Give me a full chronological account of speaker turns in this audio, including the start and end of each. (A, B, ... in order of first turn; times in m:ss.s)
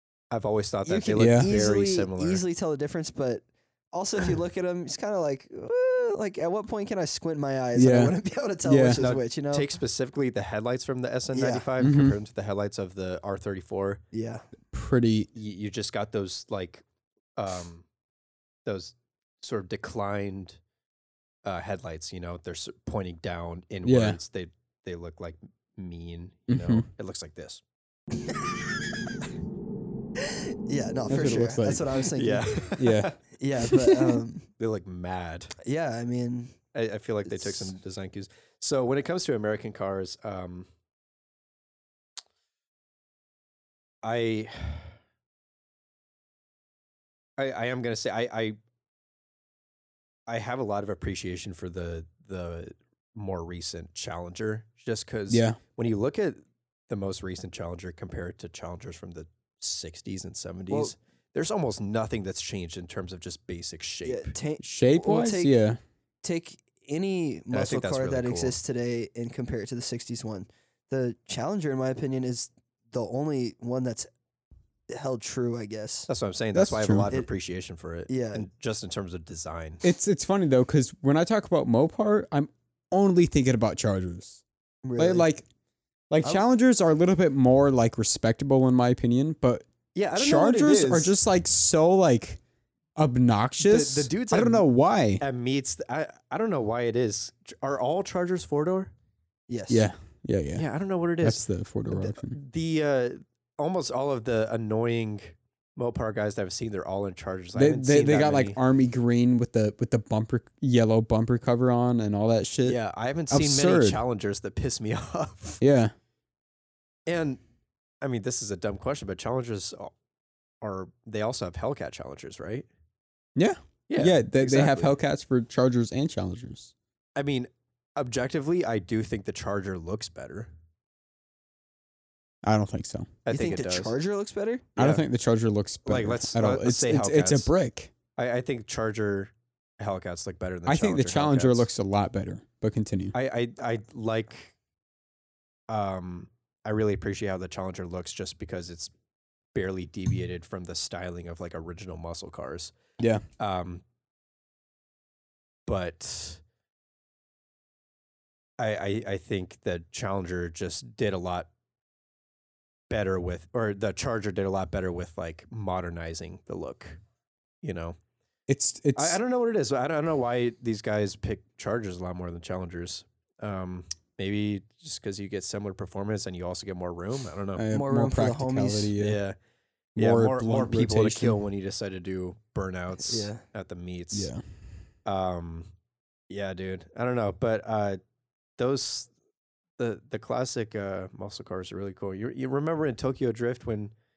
0:00.3-0:02.4 A
0:00.8-0:09.7 B
0:01.2-0:01.5 C
0:07.8-0:09.0 C
0:09.0-0:14.0 A
0:11.3-0:11.7 B
0:11.8-0:12.2 C
0:14.1-0:14.4 B
0:14.7-0:15.3 C
0:15.3-0:16.8 A
0:17.4-0:17.8 A
0:18.6-0:20.6 A
0:21.4-0:27.6 A
0:23.8-0:24.2 C
0:26.5-0:26.9 C
0:30.2-0:32.5 B
0:31.1-0:32.0 C
0:32.2-0:33.2 A
0:32.8-0:33.1 C
0:33.3-0:34.5 B
0:33.7-0:34.2 C
0:34.6-0:35.5 A
0:35.6-0:36.6 B
0:36.7-0:40.7 A
0:37.2-0:37.7 B
0:44.0-0:45.0 A
0:47.4-0:48.6 A
0:50.3-1:04.4 A
0:55.3-0:55.6 C
1:04.0-1:05.6 B
1:04.6-1:05.8 C
1:06.2-1:14.1 B
1:07.5-1:08.6 A
1:14.9-1:16.1 B
1:16.1-1:19.8 A
1:16.5-1:17.1 C
1:18.1-1:18.5 B
1:19.8-1:24.4 C
1:24.8-1:25.3 B
1:25.0-1:25.4 C
1:26.1-1:32.4 C
1:30.0-1:31.1 A
1:33.0-1:35.2 C
1:33.6-1:34.7 A
1:35.2-1:38.9 A
1:39.5-1:39.9 B
1:39.7-1:40.7 C
1:40.5-1:48.6 A
1:41.2-1:42.4 C
1:47.6-1:52.8 C
1:52.6-1:55.6 A
1:53.3-1:54.0 C
1:55.6-1:55.9 C
1:57.1-1:57.4 A
1:58.0-1:59.9 A
2:00.6-2:02.7 A
2:03.4-2:06.7 C
2:03.9-2:05.0 A
2:07.2-2:10.5 A
2:12.4-2:13.1 C
2:13.3-2:13.9 A
2:13.3-2:14.7 B
2:14.8-2:15.0 A
2:14.8-2:17.9 C
2:15.9-2:17.5 A
2:18.2-2:21.7 A
2:20.7-2:23.2 C
2:23.1-2:24.5 A
2:25.7-2:28.9 A
2:29.5-2:32.7 A
2:33.4-2:33.8 A
2:35.7-2:36.4 A
2:38.6-2:41.5 A
2:42.9-2:47.0 A
2:47.6-2:48.0 A
2:48.5-2:49.2 C
2:49.0-2:57.6 A
2:57.6-2:59.2 C
2:57.7-2:58.9 B
2:59.0-2:59.4 A
3:00.0-3:01.4 C
3:00.0-3:04.3 A
3:03.0-3:03.4 B
3:04.1-3:04.4 C
3:05.1-3:05.7 A
3:06.3-3:08.0 A
3:08.6-3:09.1 A
3:09.8-3:13.9 A